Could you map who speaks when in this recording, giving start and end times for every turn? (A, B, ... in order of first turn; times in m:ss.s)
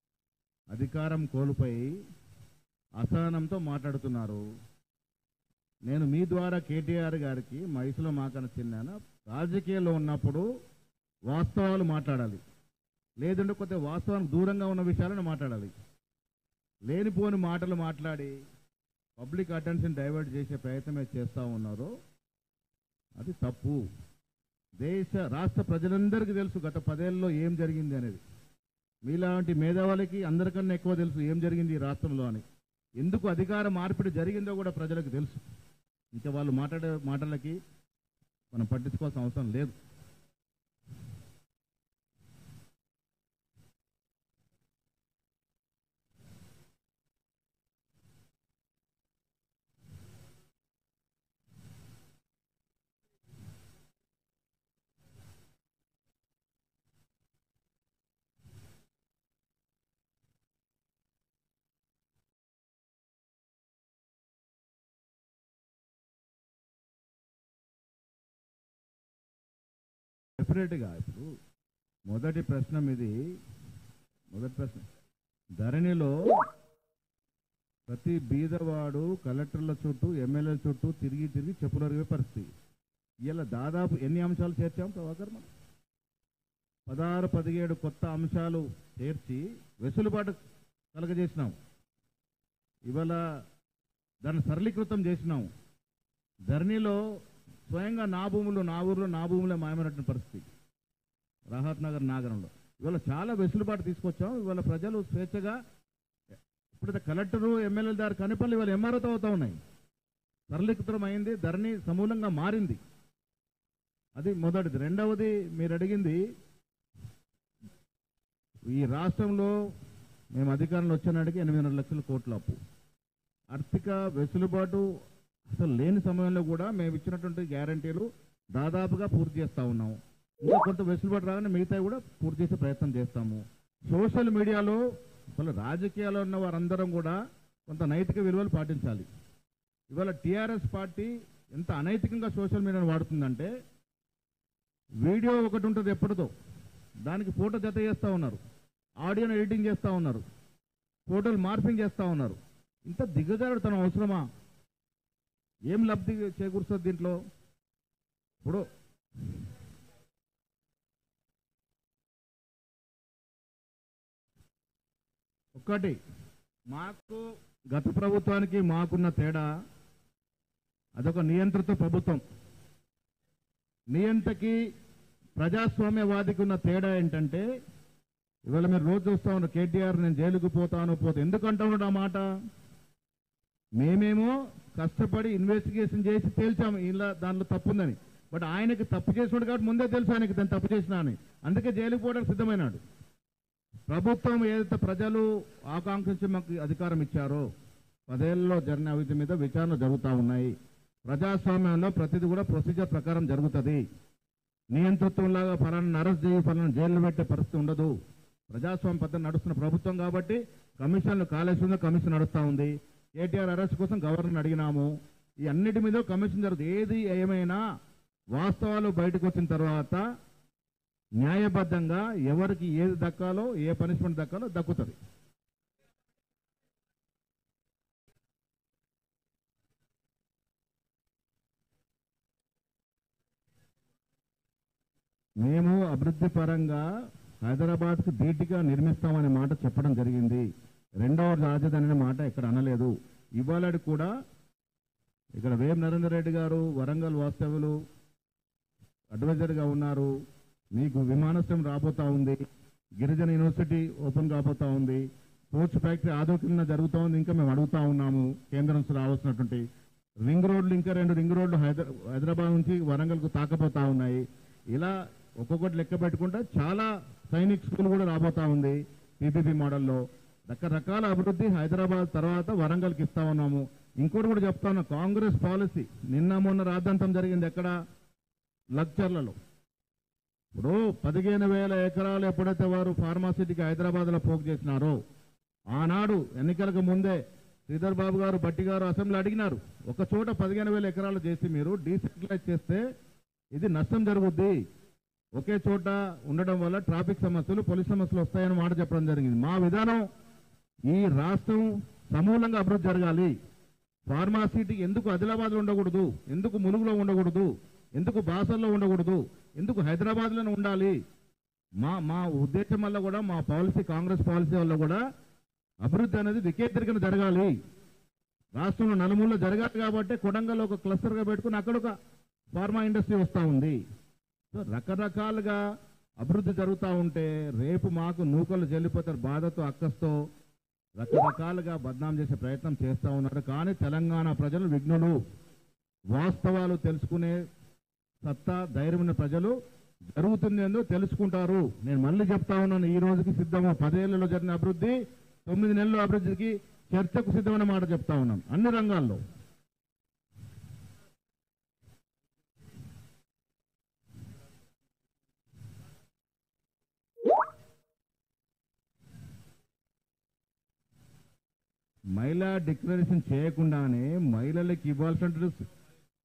0:00.7-0:01.9 A
0:03.0-0:04.4 A
0:05.8-0:10.4 A
0:11.3-0:12.4 A
0:13.2-0:15.7 A
0:16.9-0:18.3 A
0:19.2-0:21.9 A
0:23.2-0:23.8 A
0:24.8-0:28.2 A
0:29.0-0:32.4 A
0:33.0-0:35.4 A
0:36.1-0:37.6 A
0:38.5-0:39.7 A
1:10.4-1:11.3 A
1:12.1-1:13.3 A
1:14.3-1:14.8 A
1:15.6-1:16.5 A
1:17.9-1:22.5 A
1:23.3-1:25.5 A
1:26.9-1:30.4 A
1:30.9-1:31.5 A
1:32.8-1:33.2 A
1:34.2-1:35.5 A
1:36.5-1:37.0 A
1:37.7-1:40.4 A
1:41.5-1:45.6 A
1:46.7-1:49.6 A
1:50.5-1:52.8 A
1:54.2-1:56.2 A
1:58.7-1:59.5 A
2:00.3-2:02.6 A
2:03.5-2:04.8 A
2:05.5-2:14.8 A
2:15.4-2:19.1 A
2:19.9-2:23.5 A
2:25.0-2:26.3 A
2:27.0-2:28.4 A
2:29.0-2:30.2 A
2:31.1-2:34.2 A
2:35.7-2:37.2 A
2:45.5-2:46.0 A
2:46.7-2:49.5 A
2:51.0-2:52.2 A
2:53.9-2:54.6 A
2:55.4-2:57.4 A
2:58.5-3:02.2 A
3:03.8-3:12.8 A
3:13.9-3:17.4 A
3:18.1-3:20.5 A
3:21.0-3:23.8 A
3:24.7-3:27.9 A
3:28.5-3:34.9 A
3:35.5-3:37.6 A
3:38.3-3:40.0 A
3:41.2-3:45.0 A
3:55.4-3:56.9 A
3:57.4-4:00.4 A
4:01.0-4:04.1 A
4:05.3-4:07.8 A
4:09.1-4:10.1 A
4:10.7-4:12.4 A
4:13.0-4:19.6 A
4:20.2-4:37.7 A
4:38.7-4:39.3 A
4:40.6-4:45.0 A
4:45.7-4:52.8 A
4:53.5-4:54.6 A
4:55.4-5:00.1 A
5:00.9-5:03.3 A
5:04.1-5:11.0 A
5:11.8-5:15.0 A
5:15.8-5:17.5 A
5:18.5-5:21.9 A
5:22.5-5:23.8 A
5:24.5-5:25.6 A
5:26.2-5:30.2 A
5:31.0-5:35.2 A
5:36.1-5:37.4 A
5:38.2-5:39.6 A
5:40.1-5:49.2 A
6:02.1-6:05.6 A